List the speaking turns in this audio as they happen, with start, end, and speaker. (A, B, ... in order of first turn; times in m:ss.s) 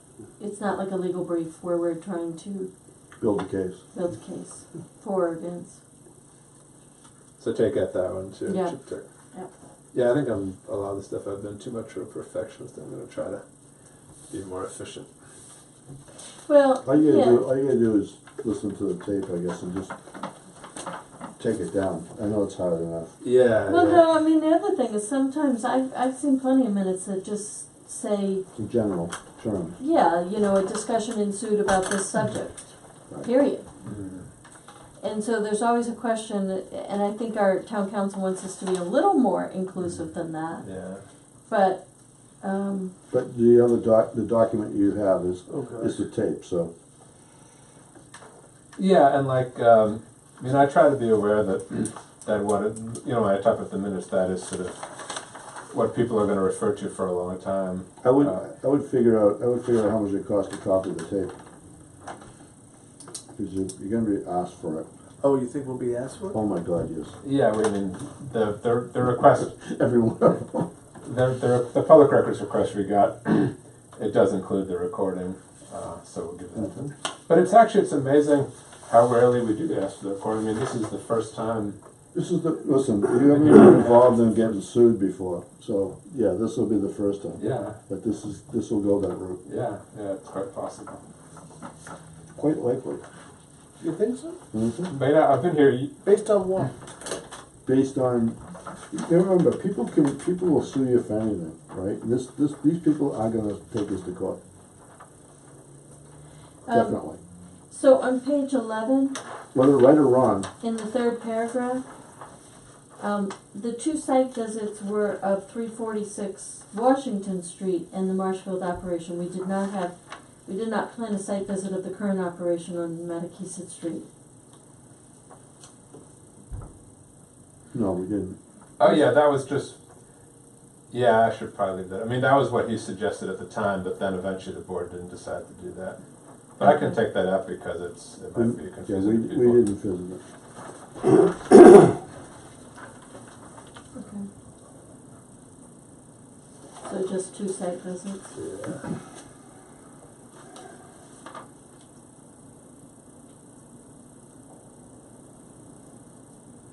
0:00.4-0:02.7 A
0:03.2-0:03.8 B
0:03.9-0:05.8 A
0:07.4-0:09.0 C
0:08.5-0:08.8 A
0:09.9-0:13.4 C
0:14.3-0:15.1 C
0:16.4-0:17.4 A
0:16.8-0:19.9 B
0:21.4-0:23.2 B
0:23.2-0:24.0 C
0:23.7-0:28.4 A
0:28.6-0:29.8 B
0:29.8-0:33.7 A
0:33.8-0:34.3 C
0:35.0-0:40.7 A
0:40.6-0:41.0 C
0:41.5-0:41.8 A
0:42.4-0:42.9 A
0:43.1-0:46.7 B
0:45.5-0:46.0 D
0:48.8-0:55.1 C
0:55.7-0:58.4 C
0:58.0-1:01.3 B
1:03.3-1:04.9 B
1:05.2-1:06.4 D
1:06.3-1:07.1 B
1:07.2-1:09.5 C
1:09.4-1:10.7 B
1:11.0-1:21.8 C
1:22.1-1:29.4 B
1:23.2-1:24.5 C
1:27.4-1:27.8 C
1:29.4-1:31.0 C
1:32.4-1:33.0 B
1:33.8-1:34.4 D
1:34.5-1:34.9 B
1:34.9-1:36.0 C
1:36.0-1:36.7 D
1:37.6-1:38.4 B
1:38.9-1:44.4 B
1:46.7-1:47.0 A
1:46.7-1:47.2 B
1:47.7-1:49.2 A
1:49.5-1:50.5 B
1:50.6-1:51.8 A
1:53.0-2:04.0 A
2:07.7-2:08.4 B
2:08.8-2:09.8 C
2:10.9-2:16.0 C
2:16.6-2:19.6 C
2:16.6-2:16.9 A
2:18.4-2:20.2 B
2:23.9-2:24.3 A
2:26.8-2:28.3 A
2:28.4-2:28.8 C